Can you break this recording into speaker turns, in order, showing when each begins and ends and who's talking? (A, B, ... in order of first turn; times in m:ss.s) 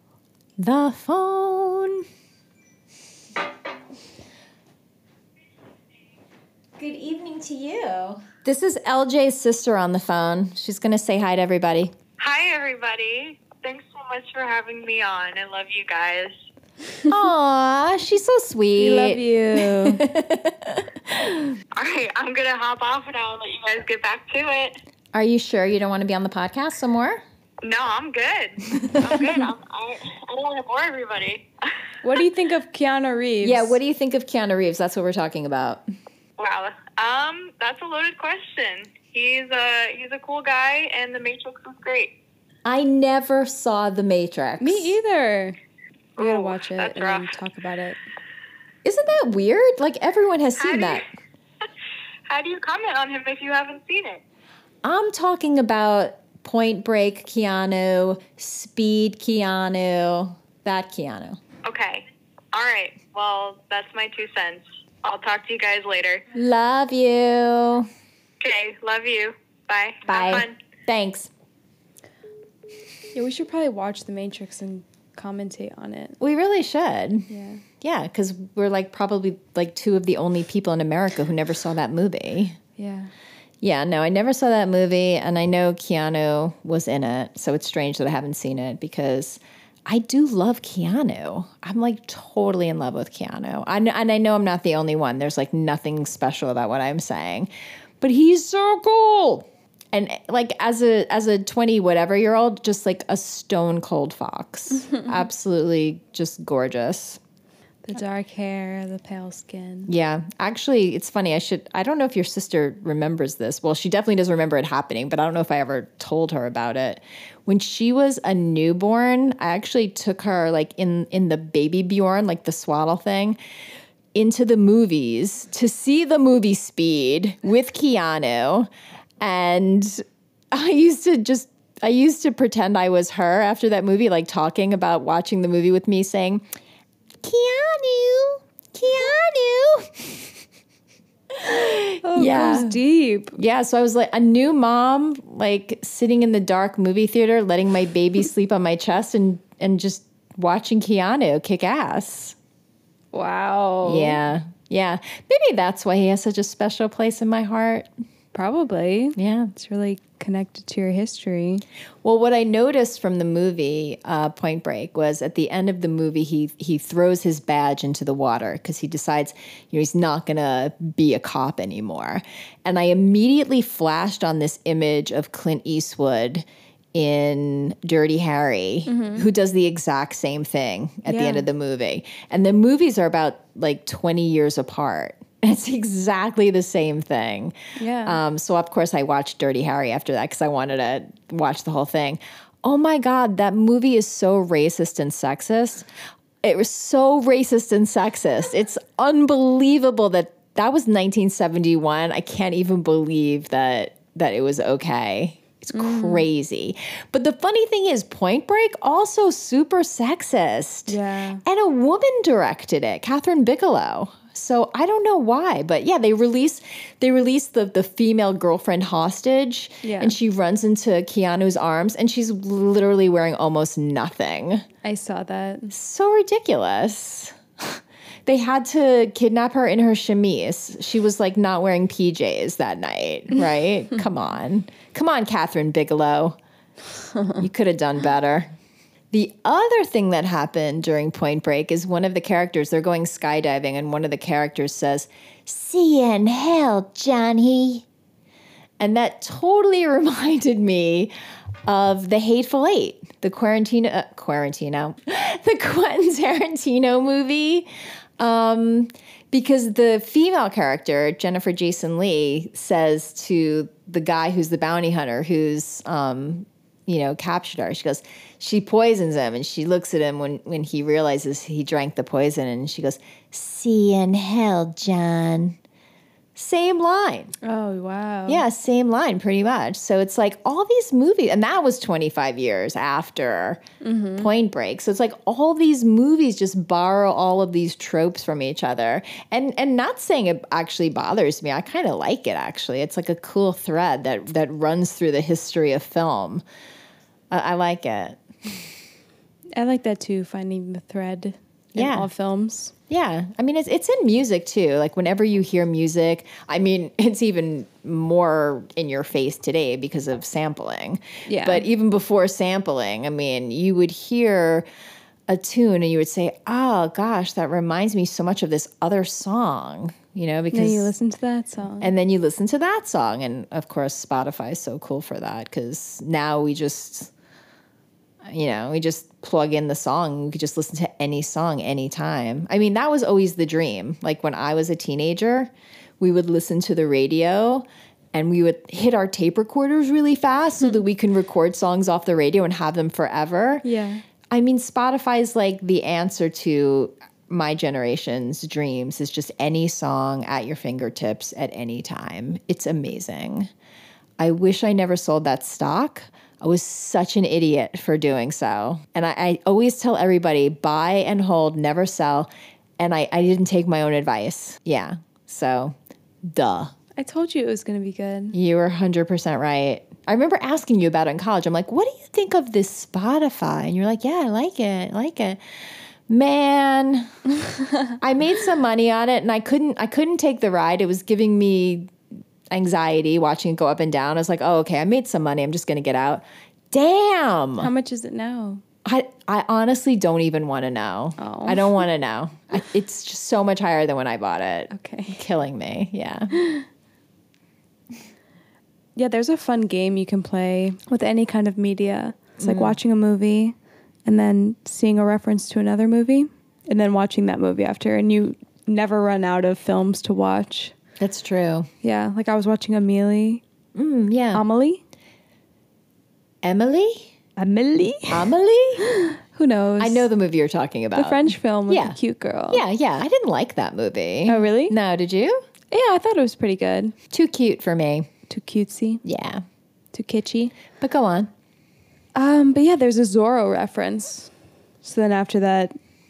0:00.6-0:02.1 A
0:06.8-0:11.9 A
0:12.2-0:16.3 B
0:17.1-0:21.6 A
0:18.8-0:20.0 C
0:21.7-0:24.8 B
0:25.1-0:27.2 A
0:27.6-0:31.5 B
0:28.8-0:29.4 A
0:32.0-0:33.8 C
0:33.4-0:35.8 A
0:36.4-0:42.2 B
0:42.6-0:45.0 A
0:44.6-0:45.6 C
0:46.2-0:47.3 B
0:46.2-0:48.0 C
0:48.8-0:51.0 A
0:50.6-0:51.0 B
0:52.3-0:54.2 B
0:54.8-1:01.4 A
1:01.6-1:06.2 B
1:06.3-1:07.9 A
1:08.4-1:10.6 B
1:10.1-1:11.3 A
1:13.1-1:16.2 C
1:16.2-1:17.3 A
1:17.3-1:17.6 C
1:17.8-1:22.6 A
1:22.8-1:23.1 C
1:23.6-1:37.5 A
1:38.0-1:47.2 A
1:47.9-1:49.9 C
1:49.9-2:03.4 A
2:04.1-2:08.7 A
2:09.2-2:16.4 A
2:17.2-2:20.4 A
2:21.3-2:22.8 A
2:22.0-2:23.4 C
2:23.4-2:32.4 A
2:33.1-2:34.2 C
2:33.8-2:37.9 A
2:38.3-2:41.6 C
2:39.2-2:39.5 A
2:42.0-3:15.9 A
2:58.9-2:59.3 C
3:01.1-3:01.5 C
3:07.8-3:08.2 C
3:16.4-3:44.6 A
3:25.7-3:26.3 C
3:30.9-3:31.4 C
3:39.8-3:40.2 C
3:44.8-3:45.7 C
3:45.7-3:56.4 A
3:57.4-3:58.5 A
3:59.1-4:07.9 A
4:08.8-4:11.1 A
4:11.7-4:35.6 A
4:36.4-4:37.3 A
4:37.4-4:38.4 C
4:38.3-4:43.6 A
4:43.8-4:44.3 C
4:44.2-4:56.4 A
4:57.3-4:58.2 A
4:59.6-5:02.7 C
5:01.8-5:02.1 A
5:02.9-5:14.7 A
5:11.3-5:11.7 C
5:15.3-5:20.9 A
5:20.5-5:21.9 C
5:21.8-5:27.1 A
5:28.2-5:43.6 A
5:43.6-5:44.0 C
5:44.3-5:53.5 A
5:54.2-6:05.8 A
6:06.3-6:06.7 A
6:07.0-6:08.4 C
6:08.3-6:15.4 A
6:16.1-6:17.1 A
6:18.0-6:21.9 A
6:22.5-6:27.7 A
6:27.6-6:28.6 C
6:28.8-6:36.3 A
6:31.2-6:31.8 C
6:34.7-6:35.2 C
6:36.3-6:36.7 C
6:39.0-6:50.8 C
6:42.4-6:42.8 A
6:51.0-6:51.7 A
6:51.8-6:53.4 C
6:53.8-6:54.4 A
6:54.3-6:54.8 C
6:56.4-6:57.1 A
6:57.4-6:58.3 C
6:58.1-6:58.9 A
6:58.8-7:00.1 C
6:59.8-7:02.0 A
7:01.0-7:02.6 C
7:02.5-7:05.4 A
7:04.3-7:04.8 C
7:05.7-7:07.0 C
7:07.1-7:08.1 A
7:08.3-7:09.0 C
7:09.0-7:09.4 A
7:09.9-7:10.5 C
7:10.8-7:11.3 A
7:12.2-7:14.3 C
7:14.8-7:15.7 C